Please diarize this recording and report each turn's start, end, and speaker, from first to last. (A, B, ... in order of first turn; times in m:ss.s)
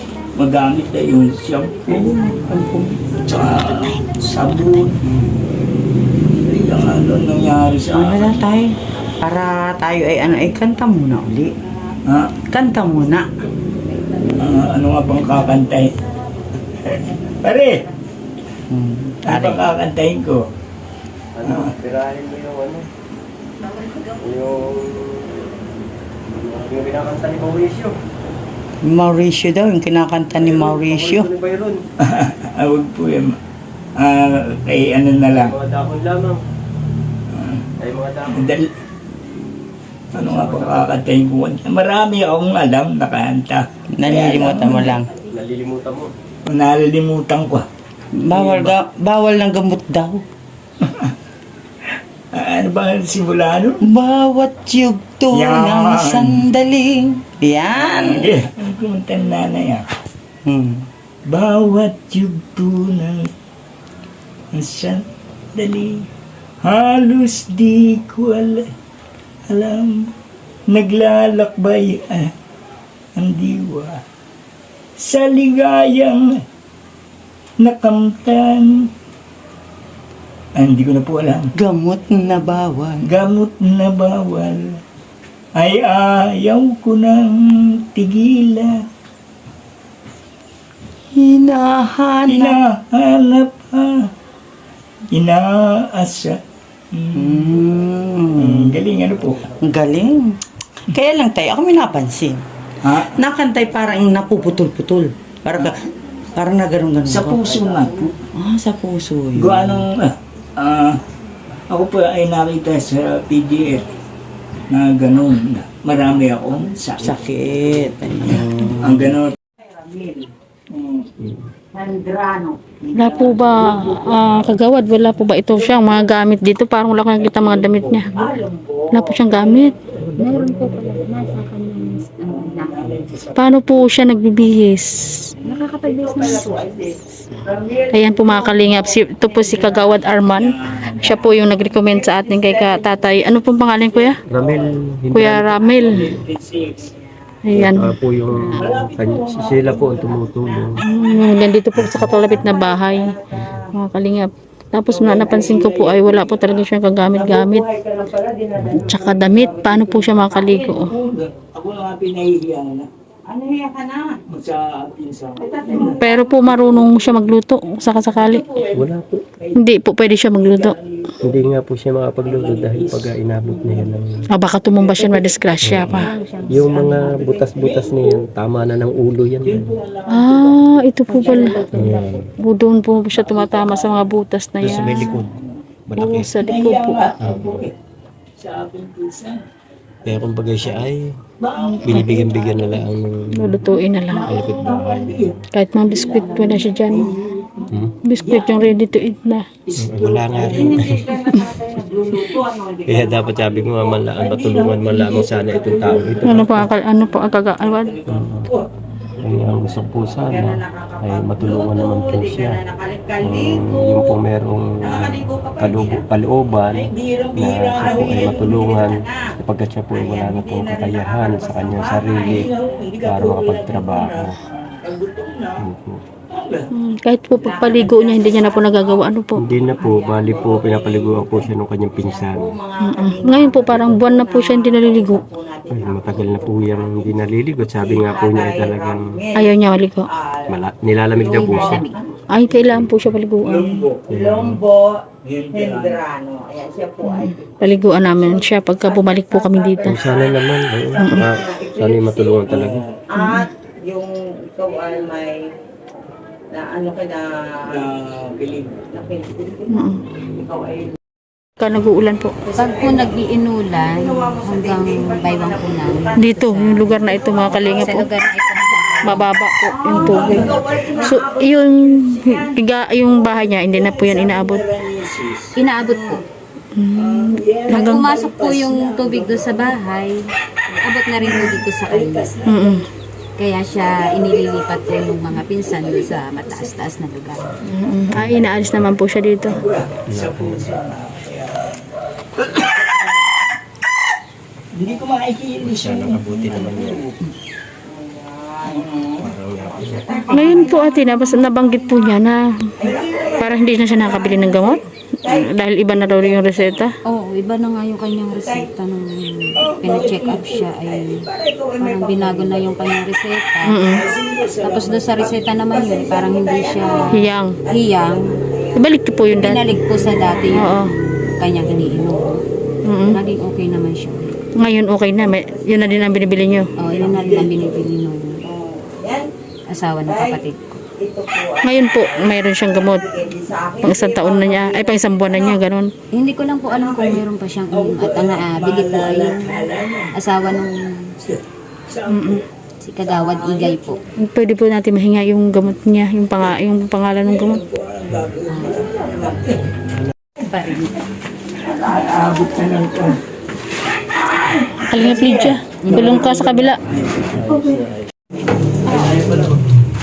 0:00.4-0:02.0 A
0:01.9-0:05.3 B
0:03.2-0:05.0 A
0:06.4-0:08.4 A
0:07.9-0:11.6 B
0:12.1-0:12.3 A
0:12.5-0:13.4 B
0:14.3-0:15.9 A
0:16.7-0:17.8 A
0:18.7-0:19.7 B
0:19.2-0:20.4 A
0:21.4-0:22.9 C
0:21.4-0:21.7 A
0:23.8-0:24.1 B
0:24.2-0:25.5 C
0:26.3-0:28.0 C
0:28.8-0:31.3 B
0:30.4-0:31.8 C
0:32.0-0:33.4 A
0:34.0-0:35.5 A
0:35.4-0:36.4 C
0:37.3-0:37.6 A
0:37.8-0:38.5 C
0:38.3-0:38.7 A
0:40.1-0:41.0 C
0:40.1-0:45.0 A
0:43.9-0:45.1 B
0:44.9-0:46.1 C
0:46.4-0:47.7 A
0:48.2-0:50.2 B
0:48.3-0:48.7 A
0:50.8-0:51.1 A
0:52.3-0:53.8 A
0:53.8-0:58.3 B
0:55.3-0:56.4 A
0:57.7-0:59.8 A
1:00.4-1:00.8 B
1:01.3-1:03.3 A
1:04.5-1:05.0 A
1:05.5-1:06.1 A
1:06.6-1:08.7 A
1:09.5-1:10.1 A
1:10.7-1:12.3 A
1:13.2-1:14.0 A
1:15.0-1:16.4 A
1:17.6-1:18.9 A
1:20.6-1:21.5 A
1:21.6-1:23.1 B
1:23.0-1:24.8 A
1:25.6-1:28.8 A
1:31.1-1:32.6 B
1:32.2-1:34.1 A
1:35.1-1:36.4 A
1:36.9-1:37.6 A
1:37.2-1:38.8 B
1:38.4-1:39.5 A
1:39.1-1:39.7 C
1:39.6-1:42.4 B
1:42.8-1:43.2 A
1:43.0-1:47.5 B
1:47.0-1:48.1 A
1:47.6-1:47.8 C
1:48.3-1:49.8 B
1:49.3-1:51.0 A
1:51.7-1:53.9 A
1:54.7-1:59.4 A
1:57.0-2:00.3 B
2:00.7-2:01.1 A
2:01.7-2:04.3 B
2:02.9-2:08.1 D
2:07.2-2:08.1 A
2:08.1-2:12.9 B
2:08.9-2:09.7 D
2:09.8-2:11.5 A
2:12.2-2:13.5 A
2:13.4-2:15.3 D
2:15.4-2:15.7 A
2:15.4-2:20.2 B
2:16.0-2:16.3 E
2:17.9-2:24.2 D
2:20.3-2:21.2 A
2:21.0-2:24.1 B
2:24.2-2:24.8 A
2:24.3-2:26.2 C
2:25.1-2:26.1 D
2:25.8-2:26.9 A
2:27.4-2:28.0 D
2:27.5-2:30.8 C
2:28.6-2:30.5 A
2:29.9-2:33.7 B
2:30.8-2:33.2 D
2:31.7-2:32.1 C
2:33.7-2:37.7 D
2:34.9-2:40.8 B
2:36.3-2:36.5 A
2:38.6-2:40.9 D
2:40.6-2:42.9 A
2:43.3-2:44.2 B
2:44.3-2:46.0 A
2:45.4-2:47.3 B
2:45.9-2:48.5 D
2:48.0-2:48.9 B
2:48.7-2:49.2 C
2:49.5-2:50.8 D
2:50.4-2:51.5 A
2:51.2-2:54.2 C
2:52.2-2:53.9 A
2:54.3-2:56.1 D
2:54.7-2:56.1 A
2:55.6-2:59.7 C
2:56.1-2:57.7 B
2:56.6-2:56.9 A
2:57.5-2:58.2 A
2:59.4-3:02.0 A
3:00.1-3:01.8 D
3:01.1-3:02.2 B
3:01.6-3:02.3 C
3:02.4-3:05.2 D
3:03.1-3:04.1 A
3:04.6-3:05.3 C
3:04.7-3:05.5 A
3:05.9-3:06.3 C
3:05.9-3:07.0 D
3:06.4-3:07.7 A
3:07.2-3:07.6 C
3:08.4-3:09.4 A
3:10.0-3:10.9 A
3:10.0-3:11.2 C
3:11.4-3:12.9 A
3:11.8-3:15.4 C
3:13.3-3:14.5 D
3:14.1-3:18.7 A
3:15.5-3:17.1 D
3:16.1-3:17.3 B
3:17.7-3:18.0 C
3:18.0-3:19.4 D
3:19.6-3:21.1 A
3:19.8-3:21.0 C
3:20.3-3:24.0 B
3:22.9-3:26.7 C
3:24.0-3:28.6 A
3:26.2-3:27.9 D
3:28.1-3:28.5 C
3:29.2-3:32.6 C
3:29.2-3:30.1 A
3:30.1-3:34.2 B
3:33.2-3:42.5 C
3:34.8-3:36.0 B
3:36.7-3:38.7 A
3:37.7-3:39.3 B
3:39.9-3:42.5 B
3:42.1-3:45.7 A
3:43.0-3:44.3 C
3:45.6-3:46.0 C
3:46.3-3:46.7 A
3:46.7-3:49.5 D
3:47.3-4:00.6 B
3:49.3-3:52.6 C
3:52.8-3:55.2 D
3:53.7-3:54.0 C
3:55.7-3:59.1 C
3:59.3-4:00.1 D
4:00.5-4:01.8 C
4:01.1-4:02.2 B
4:01.2-4:02.0 E
4:02.3-4:03.8 D
4:02.6-4:03.1 C
4:03.4-4:04.4 A
4:04.1-4:15.5 B
4:04.1-4:04.6 C
4:05.2-4:06.0 A
4:07.0-4:10.1 D
4:09.8-4:12.8 C
4:11.0-4:11.3 D
4:12.4-4:13.0 A
4:13.2-4:13.5 D
4:16.5-4:17.8 B
4:17.6-4:18.9 A
4:18.9-4:20.9 B
4:19.7-4:20.1 D
4:21.6-4:22.4 D
4:22.4-4:32.6 B
4:22.6-4:29.3 E
4:26.2-4:28.1 D
4:29.0-4:34.6 D
4:29.9-4:30.9 A
4:30.0-4:30.5 E
4:33.6-4:35.5 A
4:35.6-4:36.2 E
4:35.8-4:36.2 B
4:36.7-4:38.0 D
4:36.9-4:39.8 A
4:37.7-4:42.3 E
4:41.2-4:42.8 A
4:42.4-4:42.8 D
4:43.4-4:47.6 E
4:43.7-4:46.5 A
4:47.6-4:49.6 D
4:48.1-4:48.9 C
4:49.4-4:51.8 A
4:50.1-4:50.7 C
4:52.4-4:53.2 A
4:54.7-4:57.2 A
4:55.6-4:57.0 C
4:57.8-5:02.1 B
4:59.2-5:00.0 C
5:00.3-5:02.7 D
5:00.3-5:00.6 E
5:02.8-5:06.9 B
5:02.8-5:03.4 A
5:03.4-5:07.0 D
5:07.0-5:11.2 E
5:08.3-5:08.7 B
5:09.6-5:10.8 A
5:10.8-5:13.0 B
5:11.8-5:14.0 E
5:13.6-5:14.0 D
5:13.8-5:15.2 A
5:14.6-5:17.1 E
5:15.2-5:20.3 B
5:17.1-5:17.6 D
5:17.7-5:18.4 E
5:18.8-5:19.7 D
5:19.3-5:22.4 E
5:20.5-5:21.0 D
5:22.8-5:23.2 D
5:23.0-5:24.4 E
5:24.6-5:26.7 D
5:25.2-5:27.8 B
5:26.8-5:28.4 E
5:26.8-5:27.7 A
5:28.4-5:29.3 B
5:29.7-5:30.7 E
5:30.0-5:30.4 B
5:31.0-5:35.6 B
5:31.6-5:33.0 D
5:33.8-5:35.9 D
5:36.1-5:41.1 E
5:36.7-5:40.1 A
5:41.2-5:42.4 A
5:42.1-5:42.4 D
5:42.8-5:44.0 E
5:43.0-5:44.0 B
5:44.2-5:47.6 D
5:47.2-5:49.6 A
5:48.7-5:49.2 B
5:50.5-5:50.9 E
5:51.6-5:52.8 B
5:51.8-5:53.2 A
5:54.3-5:58.0 A
5:54.4-5:54.8 B
5:54.9-5:56.8 D
5:55.8-5:56.3 B
5:57.5-5:57.8 B
5:58.8-5:59.6 A
5:58.9-5:59.2 B